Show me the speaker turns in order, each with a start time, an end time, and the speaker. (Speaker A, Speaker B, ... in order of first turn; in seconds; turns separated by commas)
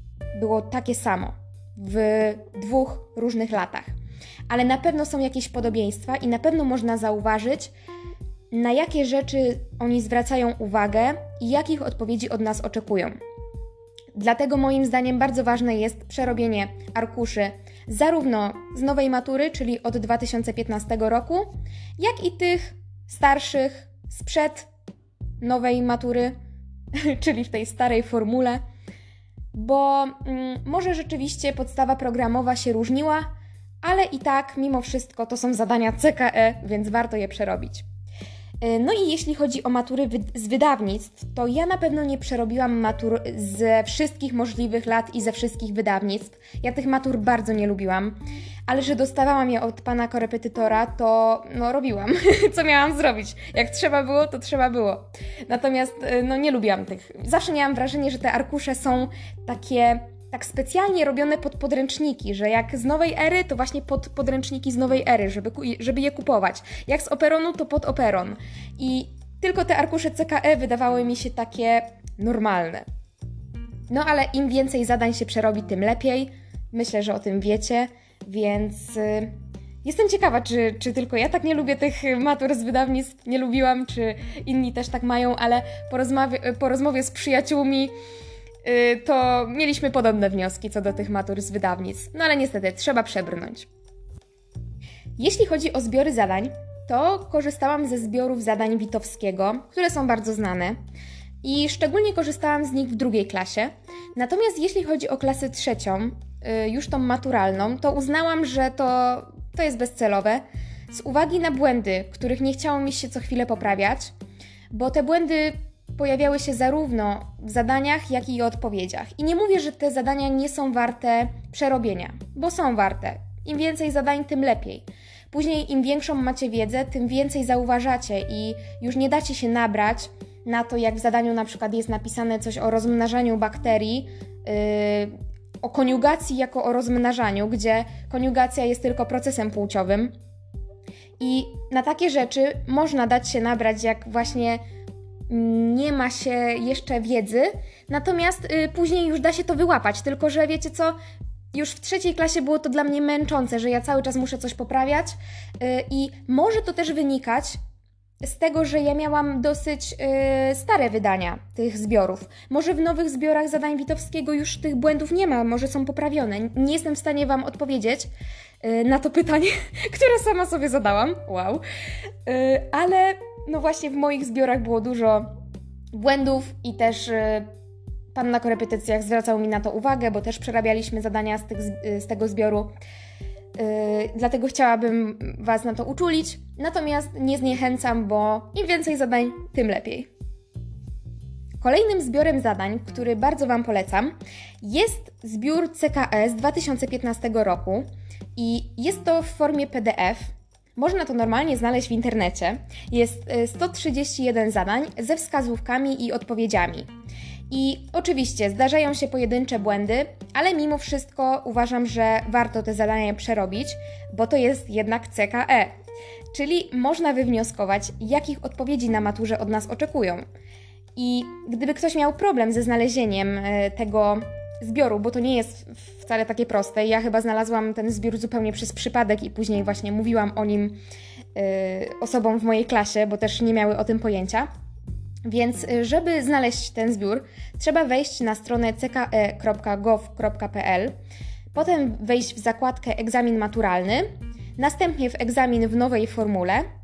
Speaker A: 0.3-3.9, Speaker A: 4.5-7.7, Speaker A: 8.5-13.1, Speaker A: 14.1-24.7, Speaker A: 25.4-26.3, Speaker A: 26.9-28.6, Speaker A: 29.5-33.3, Speaker A: 33.8-37.8, Speaker A: 38.6-72.8, Speaker A: 73.9-87.9, Speaker A: 88.6-93.7, Speaker A: 95.2-100.8, Speaker A: 101.4-114.1, Speaker A: 114.7-140.1, Speaker A: 141.2-144.6, Speaker A: 145.3-150.9, Speaker A: 151.5-157.6, Speaker A: 158.2-168.1, Speaker A: 168.6-171.6, Speaker A: 172.2-175.3, Speaker A: 175.9-177.5, Speaker A: 178.1-182.7, Speaker A: 183.6-190.1, Speaker A: 191.6-197.8, Speaker A: 198.3-206.9, Speaker A: 207.5-215.7, Speaker A: 216.3-220.2, Speaker A: 220.9-230.8, Speaker A: 231.3-234.5, Speaker A: 235.2-240.9, Speaker A: 241.5-246.6